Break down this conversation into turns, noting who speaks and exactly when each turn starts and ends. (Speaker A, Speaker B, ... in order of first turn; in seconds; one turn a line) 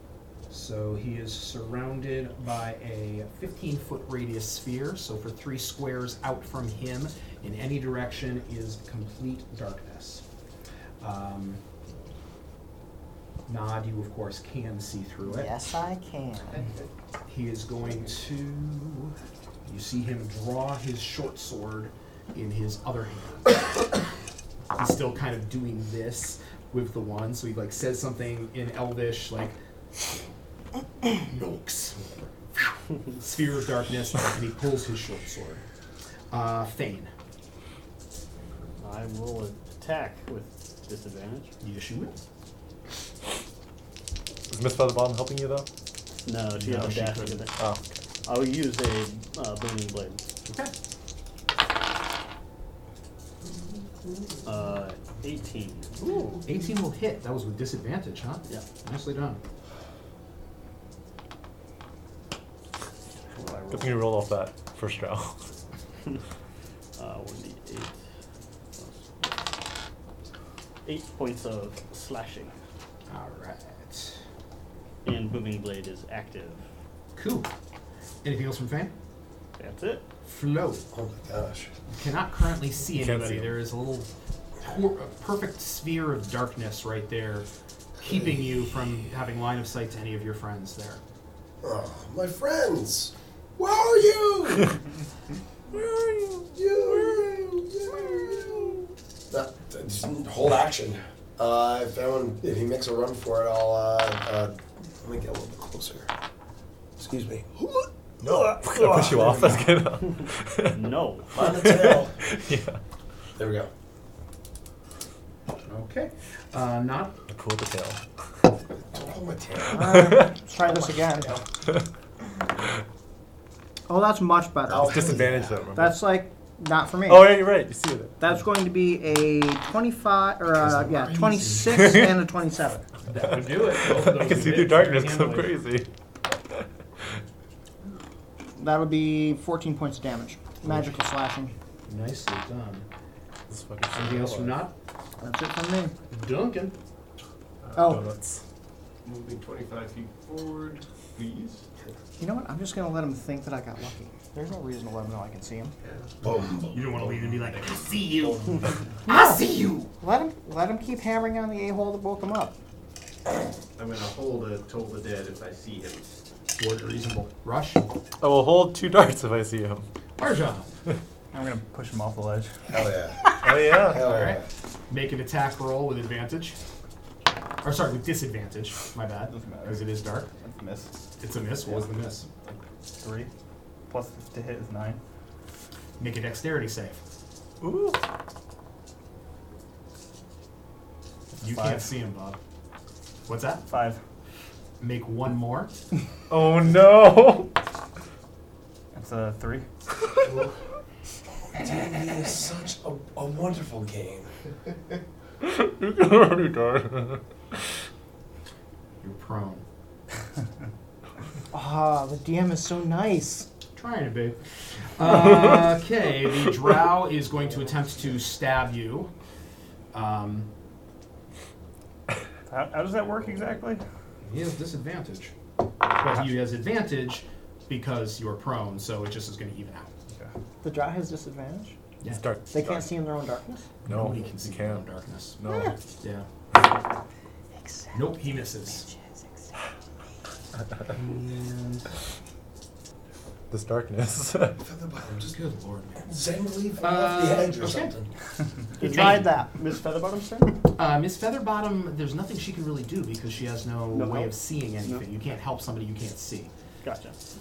Speaker A: 0.5-10.2
Speaker A: 11.0-11.6
Speaker A: 13.5-15.5
Speaker B: 15.3-16.6
Speaker A: 17.3-23.9
Speaker A: 24.8-29.6
Speaker A: 31.2-32.3
Speaker A: 33.1-35.6
Speaker A: 36.3-37.1
Speaker C: 38.8-41.5
Speaker A: 41.6-42.2
Speaker D: 44.5-45.7
Speaker C: 46.2-47.6
Speaker A: 46.5-47.4
Speaker C: 48.2-50.3
Speaker A: 50.5-50.7
Speaker C: 54.4-56.0
Speaker A: 56.4-59.4
Speaker C: 63.4-63.9
Speaker D: 63.7-65.4
Speaker C: 67.0-68.0
Speaker C: 68.8-69.5
Speaker C: 70.8-72.6
Speaker A: 73.1-74.2
Speaker C: 75.0-76.7
Speaker A: 77.2-77.5
Speaker A: 78.2-78.9
Speaker C: 79.6-80.1
Speaker A: 80.2-80.8
Speaker E: 80.9-81.7
Speaker A: 81.9-84.1
Speaker D: 82.9-83.6
Speaker A: 84.6-87.5
Speaker A: 88.0-91.0
Speaker E: 91.6-94.8
Speaker D: 95.7-97.3
Speaker E: 96.4-106.1
Speaker E: 107.0-107.6
Speaker D: 108.2-112.8
Speaker E: 108.2-109.8
Speaker C: 110.0-111.5
Speaker E: 111.3-112.2
Speaker E: 113.4-113.7
Speaker A: 115.7-117.2
Speaker D: 117.3-118.0
Speaker E: 118.8-120.0
Speaker B: 119.7-121.4
Speaker D: 119.8-120.4
Speaker B: 123.9-127.6
Speaker E: 124.7-125.7
Speaker D: 124.8-126.0
Speaker D: 127.1-128.2
Speaker B: 128.2-132.9
Speaker E: 130.6-131.8
Speaker D: 131.6-132.2
Speaker A: 133.1-135.6
Speaker D: 133.8-135.9
Speaker B: 138.6-141.6
Speaker D: 140.7-140.9
Speaker A: 141.9-142.9
Speaker D: 143.5-144.7
Speaker A: 143.9-144.7
Speaker B: 145.2-145.9
Speaker A: 146.1-146.8
Speaker D: 147.7-148.4
Speaker B: 147.8-148.1
Speaker F: 149.0-151.7
Speaker B: 152.2-155.8
Speaker F: 155.8-158.8
Speaker E: 156.2-156.6
Speaker A: 156.7-159.9
Speaker B: 159.1-159.5
Speaker B: 160.0-162.6
Speaker F: 163.8-166.1
Speaker A: 166.6-167.9
Speaker D: 168.2-169.9
Speaker A: 170.2-170.7
Speaker G: 171.3-172.5
Speaker E: 172.7-174.5
Speaker D: 173.4-174.1
Speaker A: 174.0-176.6
Speaker A: 177.6-180.3
Speaker G: 179.3-180.9
Speaker A: 181.2-182.3
Speaker G: 183.0-183.3
Speaker G: 183.9-185.0
Speaker A: 186.0-187.0
Speaker D: 187.6-188.0
Speaker G: 191.4-191.9
Speaker A: 191.4-192.4
Speaker A: 193.3-193.6
Speaker G: 193.7-194.0
Speaker A: 194.8-195.7
Speaker D: 196.3-197.5
Speaker G: 198.9-199.7
Speaker E: 200.2-200.5
Speaker E: 201.5-204.3
Speaker D: 205.4-207.2
Speaker A: 209.0-209.6
Speaker B: 211.5-213.5
Speaker A: 213.8-214.4
Speaker A: 215.0-219.1
Speaker A: 219.9-220.5
Speaker G: 222.5-223.8
Speaker A: 224.2-225.3
Speaker A: 225.9-229.9
Speaker B: 230.6-231.8
Speaker D: 232.1-232.9
Speaker B: 232.5-233.7
Speaker D: 233.9-234.8
Speaker A: 233.9-235.4
Speaker D: 235.4-235.8
Speaker B: 235.5-235.8
Speaker A: 236.0-236.3
Speaker B: 237.6-239.2
Speaker A: 237.9-238.9
Speaker A: 240.9-241.9
Speaker D: 243.5-244.6
Speaker E: 244.6-245.4
Speaker A: 245.3-246.2
Speaker E: 246.1-248.1
Speaker A: 246.8-247.9
Speaker C: 248.8-250.7
Speaker B: 248.8-249.4
Speaker A: 248.8-249.3
Speaker A: 250.8-256.5
Speaker C: 253.9-255.1
Speaker C: 256.8-257.2